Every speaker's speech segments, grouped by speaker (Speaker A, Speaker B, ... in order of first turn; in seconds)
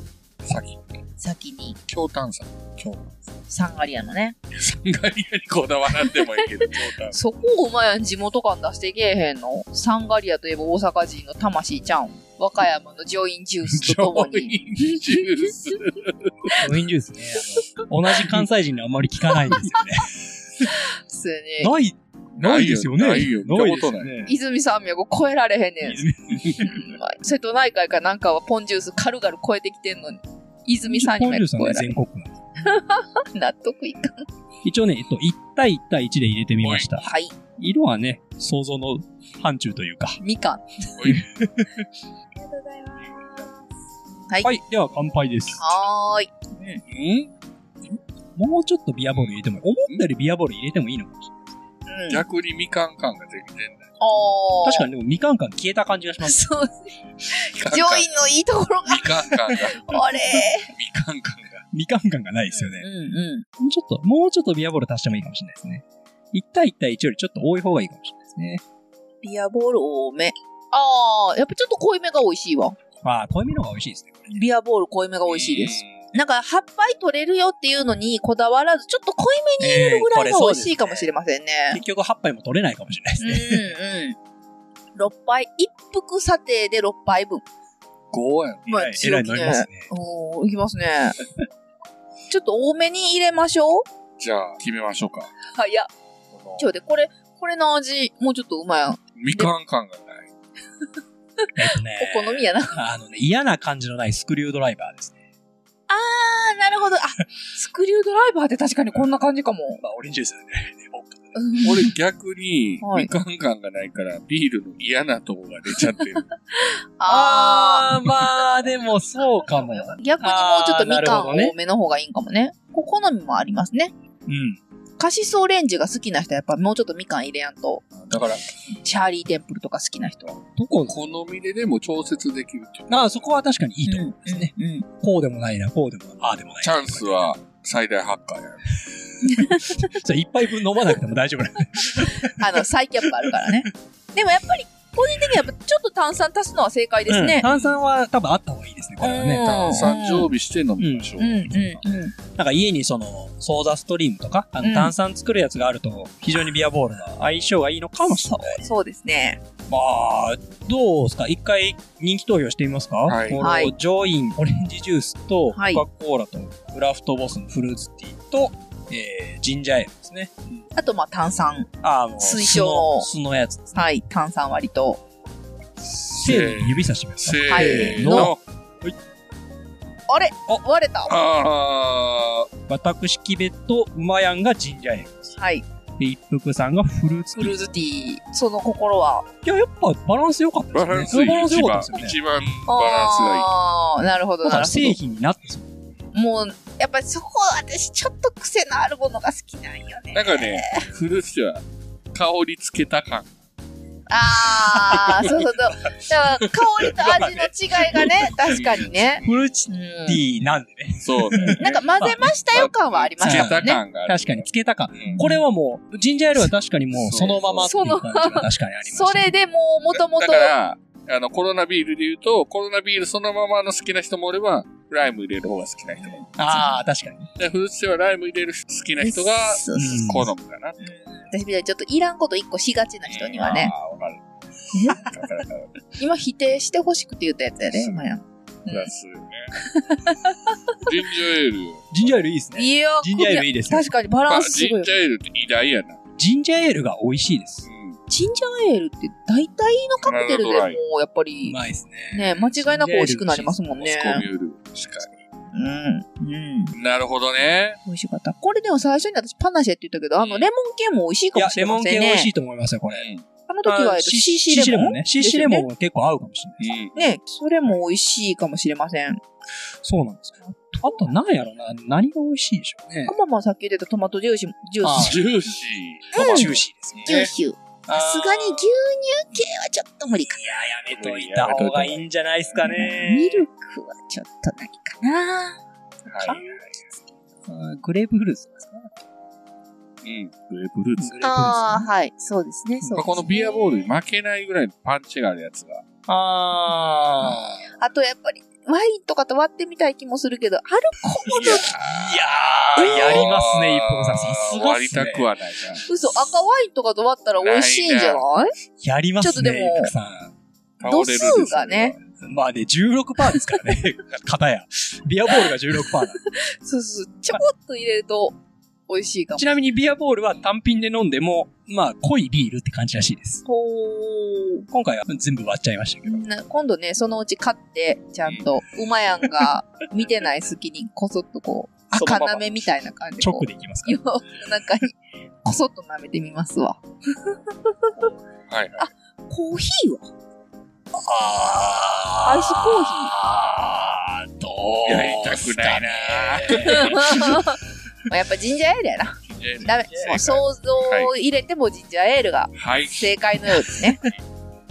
Speaker A: 0.5-1.0, 1.9-3.4, 4.5-7.2, 13.7-16.5, 22.4-24.1, 36.6-36.9, 41.0-41.2, 43.0-43.4, 46.9-47.3, 52.1-53.9, 57.5-58.1, 58.9-61.6, 75.3-76.0, 88.1-88.7, 94.2-95.3, 96.3-96.7, 99.2-100.3, 111.6-116.3, 128.0-128.4, 130.9-133.1, 136.6-138.8, 149.4-151.8, 163.0-163.4, 175.9-178.4, 181.1-182.5, 190.7-193.5, 200.1-203.3, 204.9-205.3, 208.5-209.3, 211.0-215.2, 216.9-217.7, 220.1-226.2, 227.4-231.1, 233.1-234.2, 234.8-235.7, 237.8-238.0, 238.7-239.5, 240.8-242.3, 244.3-246.0, 247.7-248.0, 250.0-250.8, 253.8-255.2, 256.7-257.8, 260.2-260.5, 262.9-263.2, 266.6-267.1, 274.9-277.3, 280.9-282.7, 286.1-286.9, 290.0-291.3, 293.0-295.8, 297.2-297.7, 301.3-305.9, 307.4-308.2, 310.8-312.1, 338.5-338.9, 344.8-347.4, 349.3-351.1, 352.6-353.1
Speaker B: 1.2-1.8, 3.5-4.3, 6.0-15.5, 21.1-21.7, 24.3-26.0, 26.6-31.9, 32.6-34.2, 37.0-37.3, 40.2-40.9, 42.4-43.5, 45.6-46.8, 51.9-52.2, 54.0-54.9, 56.2-60.7, 62.5-63.5, 69.2-72.8, 74.3-81.8, 83.2-84.2, 84.9-87.4, 88.7-91.2, 92.3-93.8, 95.5-95.9, 96.6-99.5, 102.0-102.8, 105.9-109.8, 111.3-111.9, 112.8-113.1, 116.5-117.9, 119.4-123.9, 125.0-127.8, 128.8-130.4, 133.8-134.8, 139.2-139.8, 142.2-147.4, 149.0-150.3, 151.2-152.1, 154.6-154.9, 158.1-159.4, 163.4-163.7, 165.5-165.8, 170.7-173.1, 173.7-175.0, 177.5-178.3, 180.1-181.1, 185.4-185.6, 187.4-189.3, 192.7-195.0, 196.1-200.9, 204.1-210.2, 211.3-213.8, 217.6-220.5, 229.0-230.2, 230.8-233.7, 234.7-235.0, 236.0-238.9, 239.6-240.8, 242.5-244.9, 248.1-251.6, 252.1-254.2, 255.5-256.7, 257.9-262.3, 263.5-265.6, 266.9-269.2, 273.0-275.3, 276.1-280.4, 282.6-285.6, 291.2-293.9, 297.8-301.6, 302.8-303.3, 305.9-308.5, 309.2-309.9, 310.9-311.9, 316.3-318.4, 318.9-319.6, 323.4-324.6, 326.0-338.1, 338.8-340.1, 342.2-343.1, 346.5-354.0
Speaker C: 16.6-20.7, 21.6-24.3, 25.8-26.8, 30.9-32.4, 34.6-37.0, 37.6-40.2, 41.0-41.8, 44.4-45.6, 48.4-51.5, 54.6-56.4, 61.7-62.9, 63.6-68.6, 73.0-74.4, 79.6-81.1, 81.7-83.7, 88.7-89.9, 101.5-105.1, 109.8-111.5, 117.0-121.5, 124.3-124.6, 130.6-130.9, 132.9-137.3, 139.9-142.4, 143.2-143.7, 147.1-149.5, 150.8-151.1, 152.3-158.6, 159.7-170.6, 171.8-173.7, 176.2-178.9, 182.7-185.3, 186.0-187.6, 189.4-192.2, 194.4-195.7, 206.9-207.4, 209.2-212.3, 213.2-219.3, 226.4-227.3, 229.7-230.3, 241.9-243.9, 246.2-247.7, 251.4-253.6, 261.3-263.1, 263.6-266.7, 269.8-273.1, 274.8-275.2, 276.3-277.3, 277.9-278.7, 280.4-283.5, 287.5-289.0, 291.0-291.9, 292.8-293.1, 296.1-297.5, 301.2-305.3, 308.8-310.3, 312.2-316.2, 319.4-323.4, 324.7-326.2, 331.9-334.0, 340.9-347.4, 349.9-350.1